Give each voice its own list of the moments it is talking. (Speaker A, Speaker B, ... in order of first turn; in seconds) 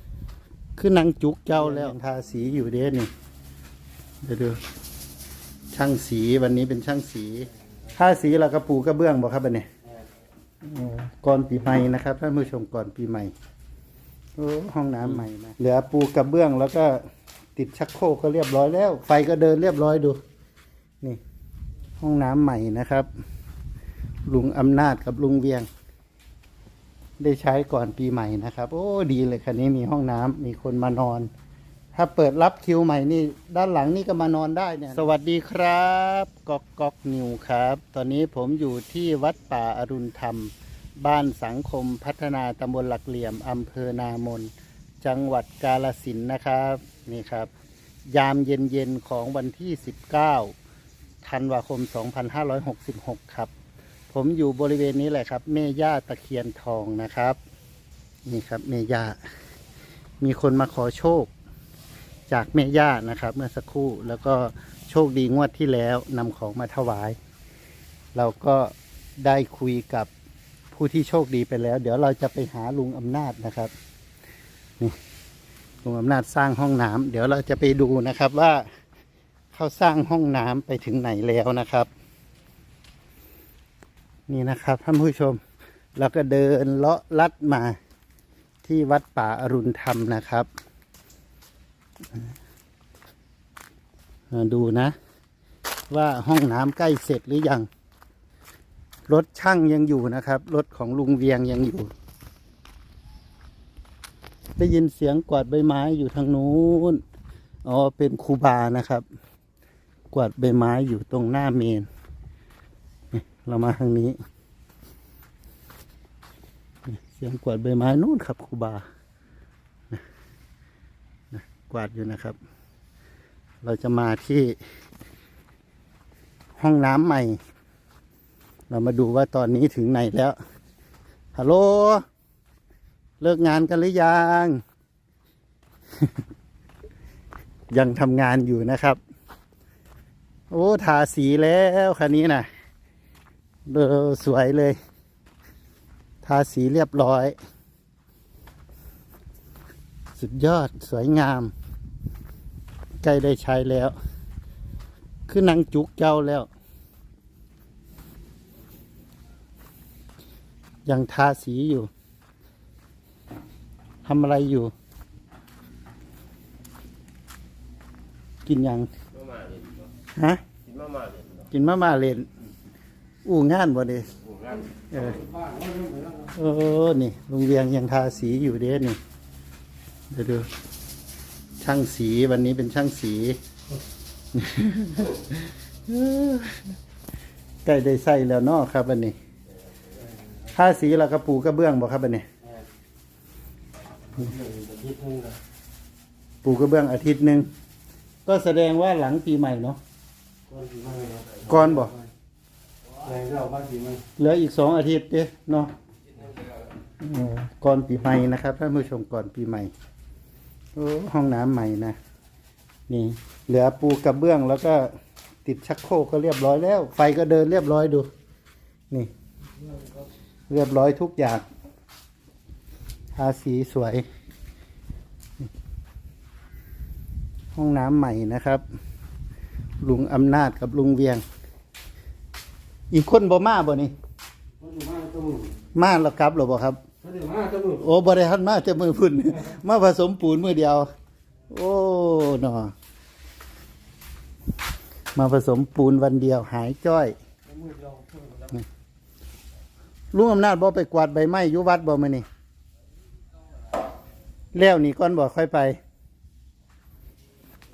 Speaker A: 0.8-3.1, 4.2-4.6, 5.7-9.7, 10.6-13.3, 14.4-17.0, 17.6-20.2, 22.0-23.1, 24.3-25.7, 27.2-31.3, 31.9-44.5, 45.0-47.5, 48.1-50.5, 51.2-53.5, 54.1-57.4, 58.2-59.2, 60.2-61.3, 62.3-67.2, 68.1-70.1, 70.7-73.7, 75.8-78.6, 79.5-81.9, 84.3-85.4, 86.0-87.8, 88.6-90.5, 94.3-94.9, 95.9-97.7, 99.1-101.9, 104.6-107.0, 107.6-109.0, 110.1-111.9, 113.1-114.2, 117.0-118.8, 121.3-122.4, 123.6-124.6, 126.6-127.4, 128.7-130.3, 131.3-132.0, 133.2-134.6, 137.7-139.0, 140.5-142.5, 143.7-144.8, 146.2-147.3, 150.2-151.5, 153.0-153.9, 155.3-156.5, 160.8-161.9, 164.0-164.7, 168.4-168.9, 170.1-170.4, 171.5-172.3, 173.2-174.1, 174.9-175.2, 176.3-179.0, 180.1-180.5, 181.6-183.4, 184.3-186.7, 187.6-189.2, 190.5-192.2, 196.4-197.5, 198.2-199.8, 201.4-202.0, 204.2-205.7, 207.0-209.7, 210.8-212.0, 212.9-214.9, 215.4-218.1, 220.5-221.4, 223.2-224.0, 227.5-228.6, 229.8-231.2, 232.9-233.9, 235.7-236.8, 237.7-240.9, 241.5-242.7, 245.1-247.2, 250.1-252.2, 254.5-255.8
Speaker B: 169.1-169.9, 170.6-171.5, 174.2-174.7, 200.9-201.4
Speaker C: 175.5-176.1, 194.4-195.3, 203.2-204.0, 234.6-235.5, 237.1-237.6